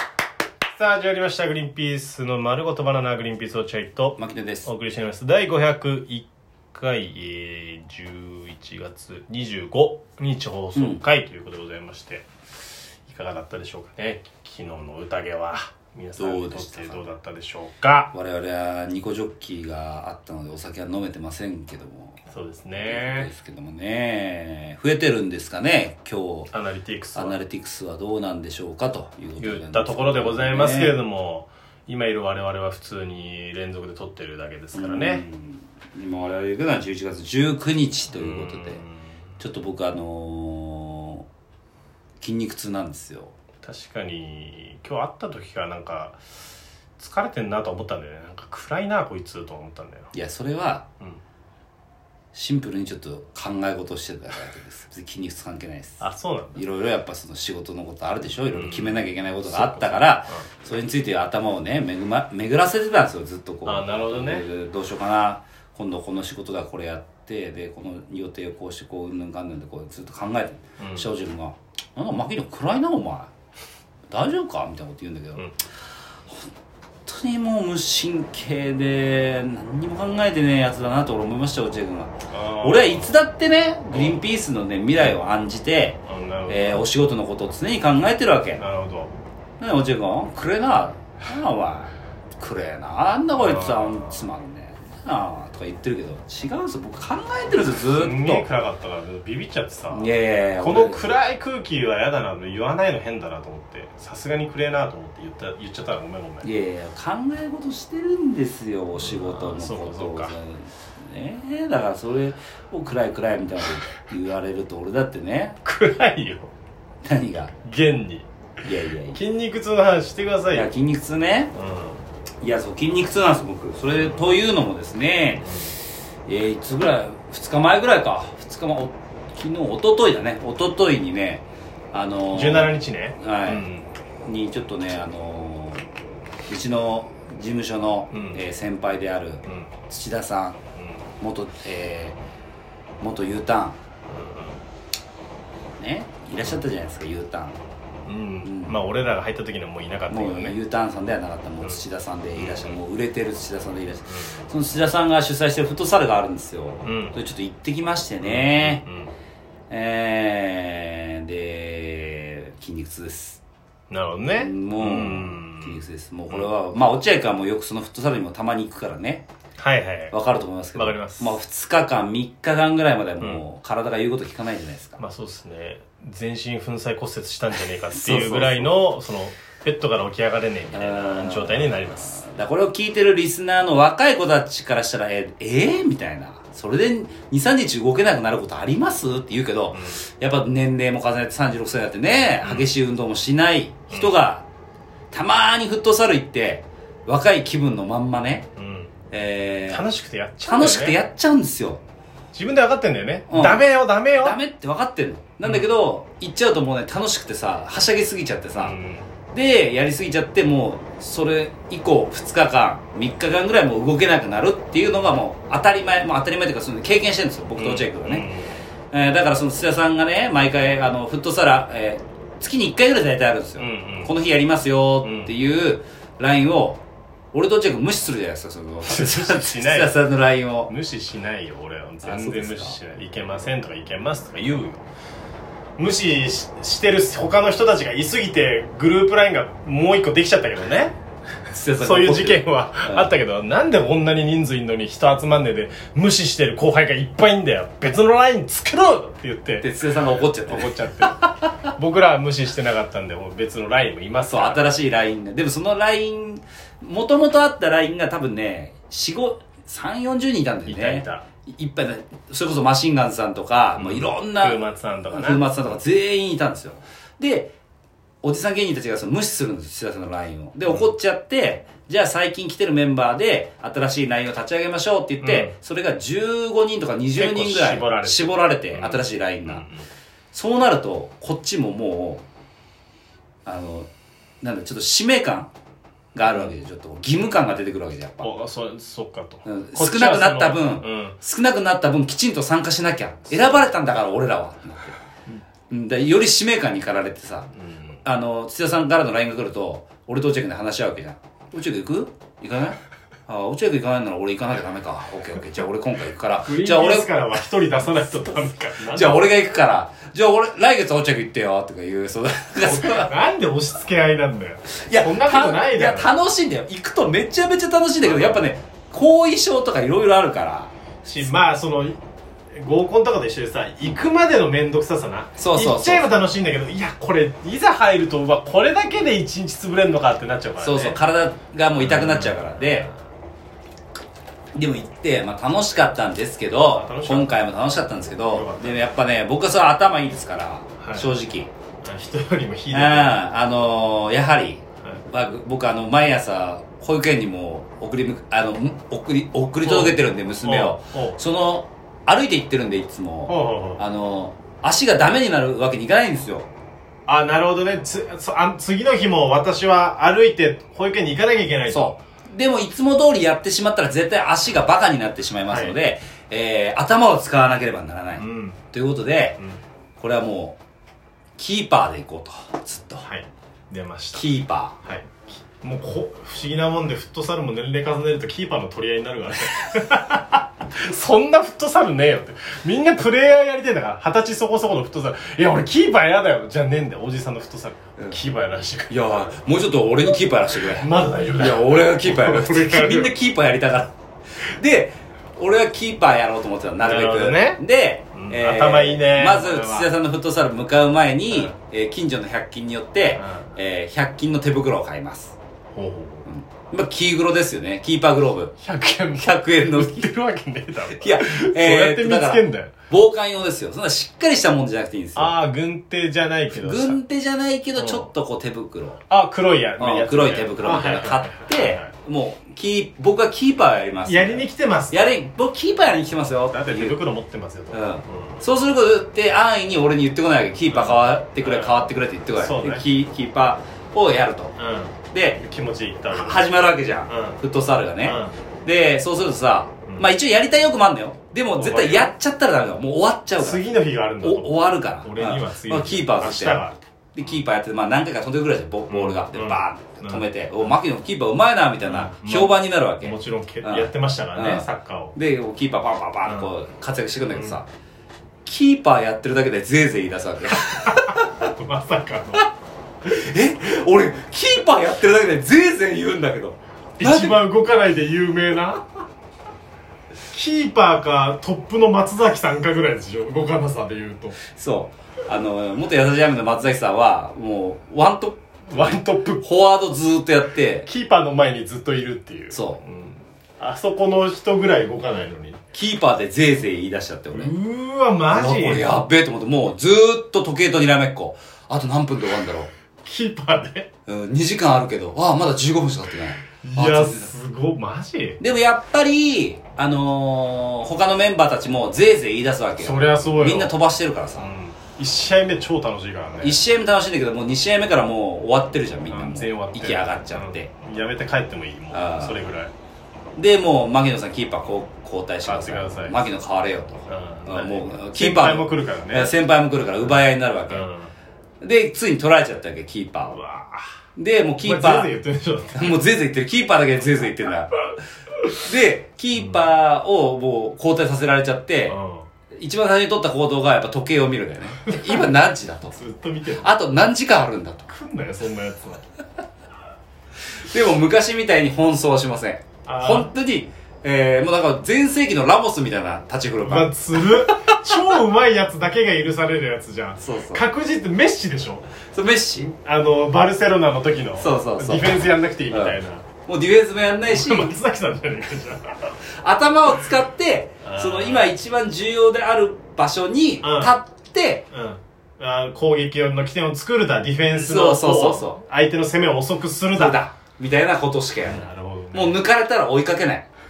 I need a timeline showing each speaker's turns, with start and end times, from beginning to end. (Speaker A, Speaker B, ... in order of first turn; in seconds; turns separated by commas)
Speaker A: 0.8-12.3, Speaker B: 4.2-4.7, Speaker B: 10.8-11.0, Speaker A: 13.1-18.1, Speaker B: 16.2-17.0, Speaker B: 18.1-22.2, Speaker A: 22.3-23.3, Speaker B: 22.8-26.5, Speaker A: 26.5-27.4, Speaker B: 27.1-31.0, Speaker A: 29.4-35.2, Speaker B: 34.7-38.8, Speaker A: 38.1-39.0, Speaker B: 39.4-41.3, Speaker B: 42.2-43.3, Speaker A: 43.6-46.2, Speaker A: 47.0-50.1, Speaker B: 50.1-50.9, Speaker B: 52.3-73.3, Speaker A: 56.0-56.6, Speaker A: 58.5-60.5, Speaker A: 63.7-64.5, Speaker A: 70.8-71.1, Speaker B: 74.1-75.5, Speaker B: 77.1-88.6, Speaker A: 82.3-83.1, Speaker A: 83.9-84.2, Speaker A: 86.1-86.9, Speaker A: 88.6-89.1, Speaker B: 89.6-98.5, Speaker A: 93.4-94.2, Speaker A: 97.9-106.5, Speaker B: 99.9-101.1, Speaker B: 106.4-115.6, Speaker A: 109.0-110.4, Speaker A: 115.6-116.5, Speaker B: 117.0-117.5, Speaker A: 117.6-118.3, Speaker B: 118.6-119.2, Speaker A: 119.1-120.7, Speaker B: 120.5-121.5, Speaker A: 121.5-122.0, Speaker B: 122.4-125.5, Speaker A: 124.0-124.3, Speaker A: 125.4-125.8, Speaker B: 126.3-133.7, Speaker A: 132.3-133.9, Speaker B: 134.2-135.8, Speaker B: 136.5-140.6, Speaker A: 138.1-138.4, Speaker A: 139.5-139.7, Speaker B: 141.2-142.2, Speaker B: 143.0-143.8, Speaker A: 144.1-144.6, Speaker B: 145.8-147.6, Speaker A: 148.1-150.6, Speaker B: 148.4-148.8, Speaker B: 150.1-158.8, Speaker A: 152.4-152.8, Speaker A: 154.1-154.5, Speaker A: 156.8-157.2, Speaker A: 158.2-159.1, Speaker B: 159.7-163.4, Speaker A: 163.9-166.5, Speaker B: 164.4-169.2, Speaker A: 169.6-170.2, Speaker B: 170.1-175.0, Speaker A: 170.8-171.3, Speaker A: 175.0-182.2, Speaker B: 177.9-178.8, Speaker B: 180.7-194.5, Speaker A: 189.7-190.0, Speaker A: 192.4-192.7, Speaker A: 193.9-194.2, Speaker B: 195.1-198.5, Speaker A: 198.6-198.9, Speaker B: 199.1-199.9, Speaker A: 199.7-201.0, Speaker B: 200.4-201.8, Speaker A: 202.3-204.4, Speaker B: 203.3-203.7, Speaker B: 204.2-208.8, Speaker A: 208.6-209.1, Speaker B: 209.3-218.3, Speaker A: 217.6-218.6, Speaker B: 218.9-226.8, Speaker A: 223.6-224.1, Speaker A: 225.0-225.3, Speaker B: 227.3-230.7, Speaker A: 228.9-230.0, Speaker A: 230.7-234.8, Speaker B: 232.0-232.8, Speaker A: 235.8-241.0, Speaker B: 241.5-243.1, Speaker A: 241.8-249.7, Speaker B: 249.6-251.1, Speaker A: 250.5-254.6, Speaker B: 254.3-267.5, Speaker A: 260.6-261.3, Speaker A: 263.8-265.4, Speaker B: 268.2-279.6, Speaker A: 275.2-275.6, Speaker A: 277.1-279.9, Speaker B: 280.3-282.2, Speaker B: 283.4-283.9, Speaker B: 284.4-285.5, Speaker B: 286.1-288.3, Speaker A: 288.2-291.2, Speaker B: 289.4-294.9, Speaker A: 293.3-293.7, Speaker B: 295.7-297.5, Speaker A: 297.6-298.0, Speaker B: 298.1-307.2, Speaker A: 306.4-309.3, Speaker B: 308.9-313.1, Speaker A: 312.6-316.1, Speaker B: 314.9-320.7, Speaker A: 318.0-318.5, Speaker A: 321.1-322.0, Speaker A: 322.5-331.0, Speaker B: 325.4-326.1, Speaker B: 330.6-332.9, Speaker A: 331.8-332.9, Speaker B: 334.5-341.5, Speaker A: 336.7-337.4, Speaker A: 338.0-338.9, Speaker A: 340.8-341.1, Speaker A: 341.8-343.2, Speaker B: 342.7-356.5, Speaker A: 349.6-351.2, Speaker A: 353.3-353.8, Speaker A: 357.1-362.0, Speaker B: 361.7-369.4, Speaker A: 365.5-365.8, Speaker A: 368.2-368.6, Speaker B: 370.0-370.6, Speaker B: 371.4-373.1, Speaker A: 373.0-374.3, Speaker B: 374.1-374.8, Speaker A: 374.8-389.4, Speaker B: 388.0-388.2, Speaker B: 388.9-405.4, Speaker A: 390.6-393.1, Speaker A: 396.8-397.6, Speaker A: 398.1-399.9, Speaker A: 403.1-403.5, Speaker A: 405.7-406.3, Speaker B: 406.3-408.5, Speaker A: 408.6-412.7, Speaker B: 409.2-410.1, Speaker B: 411.0-415.4, Speaker A: 415.1-417.0, Speaker B: 416.5-419.0, Speaker A: 417.8-418.1, Speaker A: 419.1-421.9, Speaker B: 419.8-427.0, Speaker A: 424.1-425.0, Speaker A: 426.5-428.4, Speaker B: 427.7-434.6, Speaker A: 430.7-432.9, Speaker A: 434.6-436.5, Speaker B: 435.1-435.4, Speaker B: 436.1-443.6, Speaker A: 437.1-437.4, Speaker A: 438.0-438.4, Speaker A: 441.5-442.1, Speaker A: 443.4-446.8, Speaker B: 444.2-457.7, Speaker A: 448.9-450.8, Speaker A: 451.8-455.2, Speaker A: 456.2-456.5, Speaker A: 457.3-457.6, Speaker B: 458.4-461.5, Speaker A: 460.6-462.5, Speaker B: 463.1-467.5, Speaker A: 467.0-468.9, Speaker A: 470.3-474.4, Speaker B: 474.5-480.9, Speaker A: 478.7-479.5, Speaker A: 480.9-485.6, Speaker B: 482.5-482.8, Speaker B: 485.7-487.6, Speaker A: 487.3-489.1, Speaker B: 488.3-492.7, Speaker A: 493.1-493.9, Speaker B: 494.1-497.3, Speaker A: 496.6-498.4, Speaker B: 498.4-504.5, Speaker A: 502.8-503.7, Speaker A: 504.4-506.6, Speaker B: 506.4-510.7, Speaker A: 509.1-512.7, Speaker B: 511.9-512.5, Speaker B: 513.4-520.9, Speaker A: 515.5-516.2, Speaker A: 517.1-519.4, Speaker A: 520.7-521.1, Speaker B: 521.6-523.4, Speaker A: 523.3-523.9, Speaker B: 524.2-525.1, Speaker A: 524.6-525.9, Speaker B: 525.7-527.8, Speaker B: 528.6-532.0, Speaker A: 529.4-529.6, Speaker A: 531.9-532.3, Speaker B: 532.5-536.0, Speaker A: 534.8-535.3, Speaker A: 535.9-536.7, Speaker B: 536.6-537.9, Speaker A: 537.9-539.0, Speaker B: 540.6-547.8, Speaker A: 542.9-543.3, Speaker A: 546.6-551.9, Speaker B: 550.2-550.6, Speaker B: 552.1-552.7, Speaker A: 552.6-556.3, Speaker B: 554.4-557.8, Speaker A: 557.3-559.1, Speaker B: 559.4-564.6, Speaker A: 560.8-561.5, Speaker A: 563.6-564.0, Speaker A: 564.7-570.2, Speaker B: 567.5-568.6, Speaker B: 569.9-573.5, Speaker A: 571.4-572.4